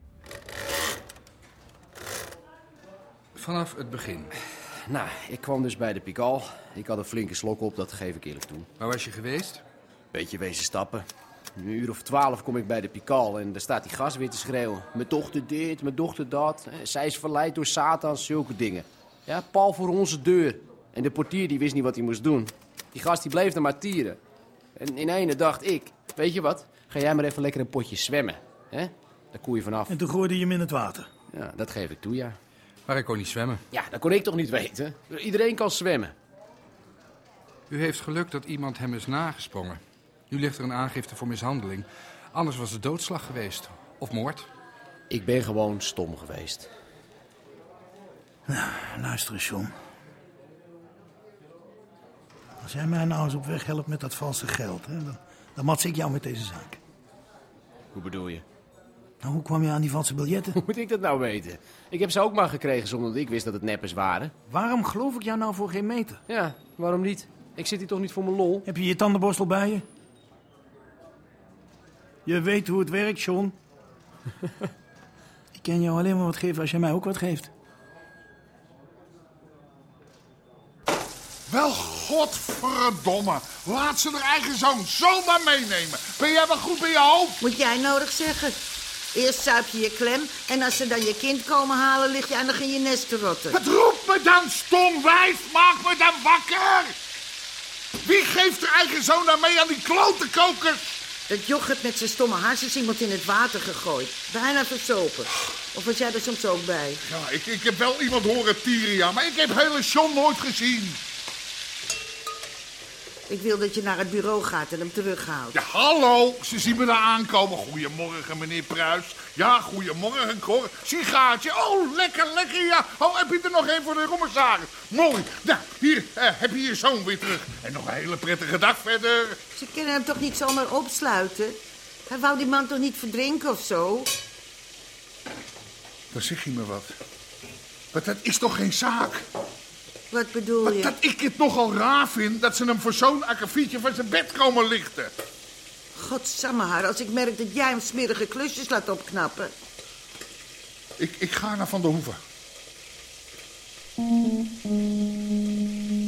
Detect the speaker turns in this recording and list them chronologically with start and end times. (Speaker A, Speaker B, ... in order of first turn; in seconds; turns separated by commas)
Speaker A: 3.4-4.3, Speaker B: 4.9-8.7, Speaker A: 8.8-9.6, Speaker B: 10.1-11.0, Speaker B: 11.6-24.2, Speaker B: 24.8-29.9, Speaker C: 29.9-31.1, Speaker B: 31.3-32.4, Speaker A: 32.9-33.6, Speaker B: 33.7-36.1, Speaker A: 37.7-44.5, Speaker B: 45.1-46.7, Speaker C: 48.5-49.7, Speaker C: 52.6-56.8, Speaker B: 57.9-58.4, Speaker C: 59.2-60.5, Speaker B: 60.5-64.3, Speaker C: 64.5-66.2, Speaker B: 66.3-68.7, Speaker C: 68.6-69.8, Speaker C: 72.2-73.5, Speaker C: 75.5-77.5, Speaker D: 81.5-87.4, Speaker E: 87.4-88.6, Speaker E: 89.1-93.6, Speaker D: 93.5-96.9, Speaker D: 98.0-101.0, Speaker E: 101.3-107.0, Speaker D: 107.0-111.0, Speaker E: 113.3-115.5, Speaker D: 115.5-129.4, Speaker E: 129.6-134.1, Speaker D: 136.1-136.9, Speaker D: 137.9-139.2, Speaker E: 140.1-140.9, Speaker D: 140.6-145.1, Speaker E: 145.9-149.5, Speaker D: 151.0-152.2